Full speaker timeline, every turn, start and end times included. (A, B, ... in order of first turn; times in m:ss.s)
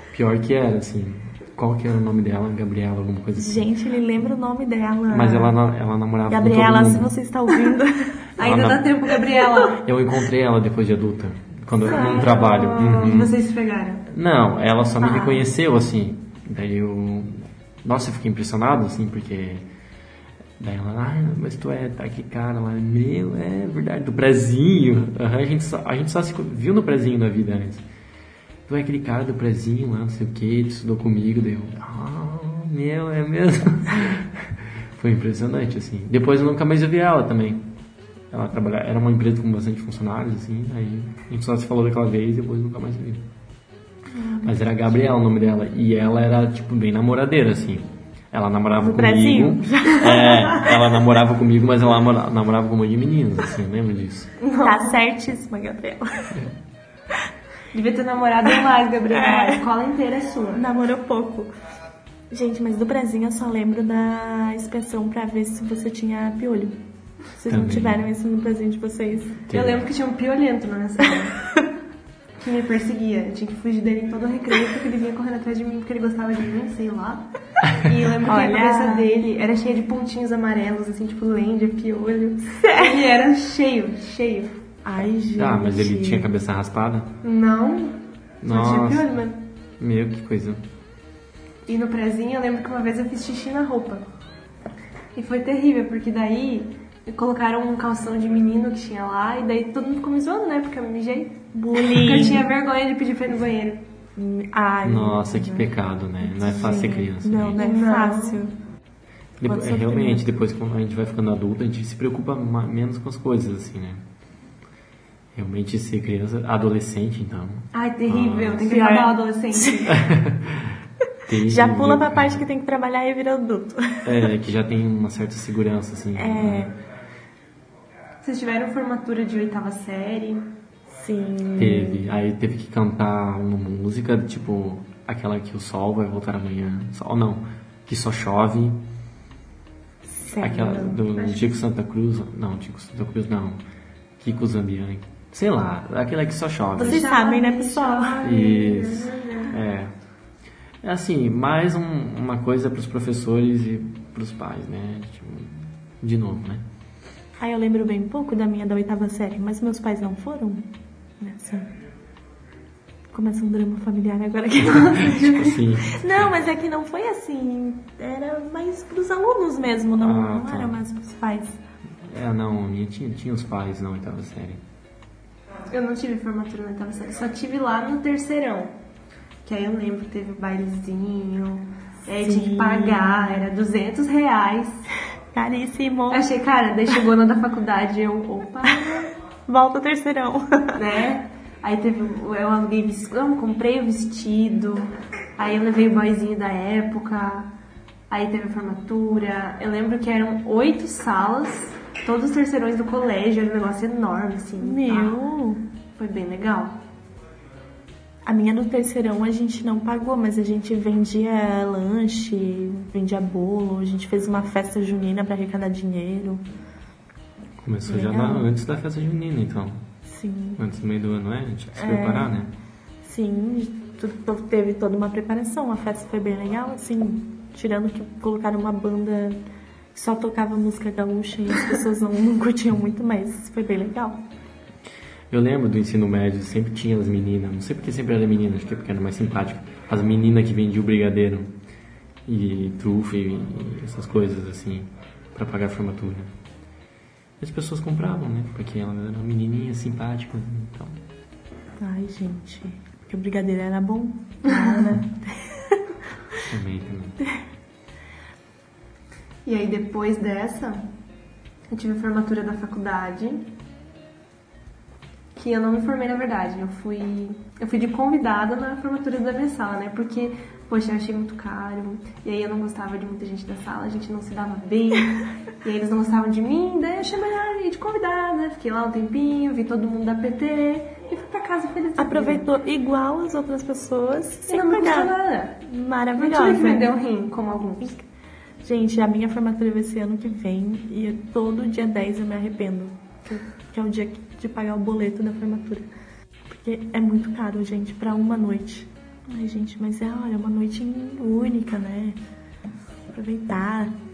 0:00.1-0:03.7 A
0:03.4-0:05.6 B
0:05.1-0:07.1 A
0:06.3-0:08.3 B
0:08.4-0:09.8 C
0:08.4-0:08.9 A
0:09.3-0:09.7 B
0:09.8-0:13.4 A
0:11.8-0:14.1 C
0:14.1-0:19.7 A
0:15.0-0:15.5 B
0:20.6-0:27.8 A
0:28.7-0:37.7 A
0:38.3-0:43.3 A
0:44.1-0:44.6 B
0:44.4-0:54.3 A
0:48.8-0:50.7 B
0:54.4-0:55.0 C
0:54.6-0:56.5 B
0:57.7-1:00.6 C
0:59.1-0:59.6 B
1:00.5-1:01.5 B
1:02.3-1:06.8 B
1:07.3-1:09.4 B
1:07.5-1:08.0 A
1:09.5-1:09.9 A
1:09.5-1:11.4 C
1:12.4-1:24.6 C
1:18.2-1:19.1 B
1:22.6-1:22.9 B
1:24.8-1:26.3 B
1:25.4-1:27.2 A
1:27.2-1:29.4 C
1:28.4-1:29.1 A
1:29.8-1:30.6 A
1:31.7-1:34.1 C
1:35.2-1:43.8 C
1:41.5-1:42.5 B
1:44.2-1:48.5 B
1:44.8-1:47.6 A
1:47.6-1:48.4 C
1:49.4-1:54.0 A
1:49.4-1:50.3 B
1:55.4-1:58.7 A
1:57.7-2:00.0 C
1:58.6-1:59.8 B
1:59.9-2:02.4 A
2:01.4-2:04.3 B
2:04.0-2:06.7 A
2:06.2-2:06.7 B
2:08.2-2:10.5 C
2:10.9-2:12.0 B
2:11.6-2:18.8 A
2:20.0-2:21.0 B
2:20.4-2:23.6 A
2:21.1-2:21.6 C
2:24.2-2:27.0 A
2:26.8-2:28.2 B
2:26.8-2:29.6 C
2:28.2-2:29.9 A
2:30.8-2:36.6 A
2:37.4-2:40.6 B
2:41.2-2:41.7 B
2:43.1-2:51.6 B
2:44.6-2:45.6 C
2:45.2-2:46.3 A
2:50.0-2:50.8 A
2:52.0-2:54.6 A
2:55.7-2:58.8 C
2:59.4-3:04.8 C
3:02.2-3:03.5 B
3:05.3-3:06.2 B
3:06.1-3:09.0 C
3:08.6-3:10.8 B
3:10.8-3:17.5 C
3:18.1-3:25.2 C
3:24.6-3:25.6 B
3:26.0-3:26.8 C
3:28.3-3:36.4 B
3:37.6-3:39.8 A
3:37.9-3:38.5 B
3:40.0-3:40.6 B
3:40.6-3:42.5 A
3:41.8-3:42.4 B
3:43.0-3:49.4 B
3:49.9-3:54.2 B
3:55.3-4:01.5 A
4:02.3-4:06.3 A
4:07.4-4:11.0 A
4:11.8-4:15.8 B
4:14.5-4:14.9 C
4:16.5-4:17.2 A
4:19.5-4:20.9 C
4:21.7-4:23.5 C
4:25.4-4:42.5 C
4:42.0-4:46.9 B
4:44.5-4:45.6 C
4:46.2-4:47.9 C
4:48.6-4:55.9 B
4:56.5-5:02.2 B
5:03.1-5:03.9 B